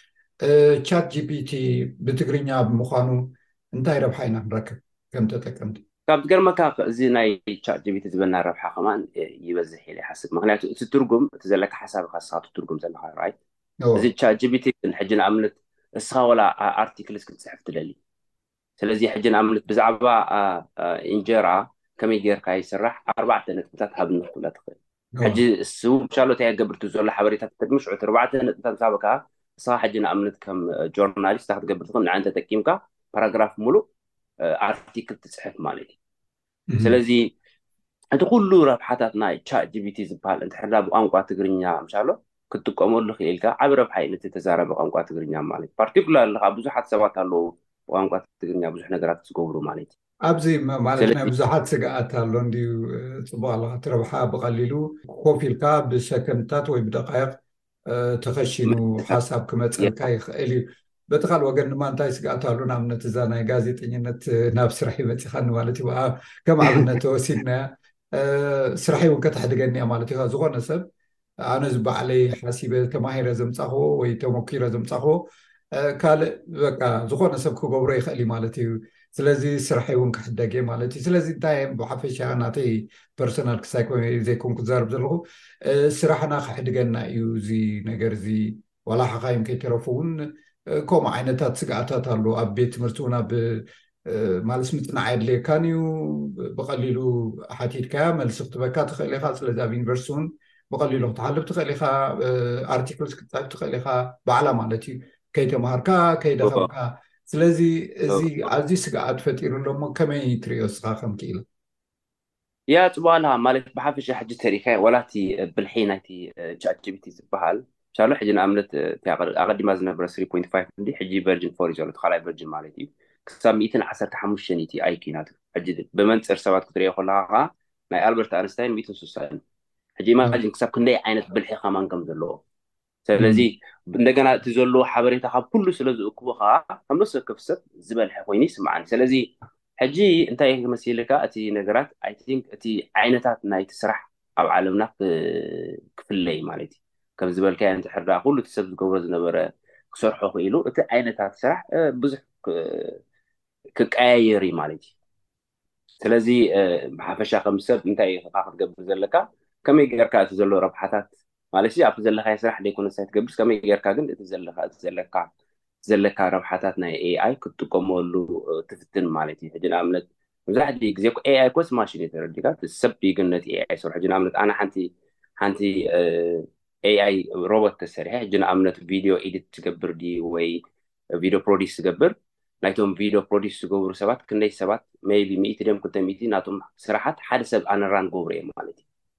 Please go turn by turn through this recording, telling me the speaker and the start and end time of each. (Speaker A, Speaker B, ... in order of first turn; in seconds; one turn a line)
Speaker A: 0.4-5.8
Speaker B: 6.1-13.4
Speaker A: 13.8-14.1
Speaker B: 13.9-18.0
Speaker B: 18.8-33.9
Speaker A: 25.2-25.4
Speaker B: 34.4-35.9
Speaker A: 36.7-37.0
Speaker B: 36.8-37.3
Speaker B: 38.1-49.9
Speaker A: 50.3-57.4
Speaker B: 51.0-51.3
Speaker A: 57.9-70.8
Speaker B: 58.7-59.2
Speaker A: 71.5-75.2
Speaker A: 75.8-90.2
Speaker A: 90.7-111.5
Speaker B: 106.4-106.7
Speaker B: 108.1-108.5
Speaker B: 112.7-129.4
Speaker B: 130.0-132.4
Speaker B: 133.1-153.0
Speaker A: 133.2-133.5
Speaker B: 153.8-154.9
Speaker B: 156.0-165.3
Speaker B: 165.9-180.6
Speaker B: 181.2-188.8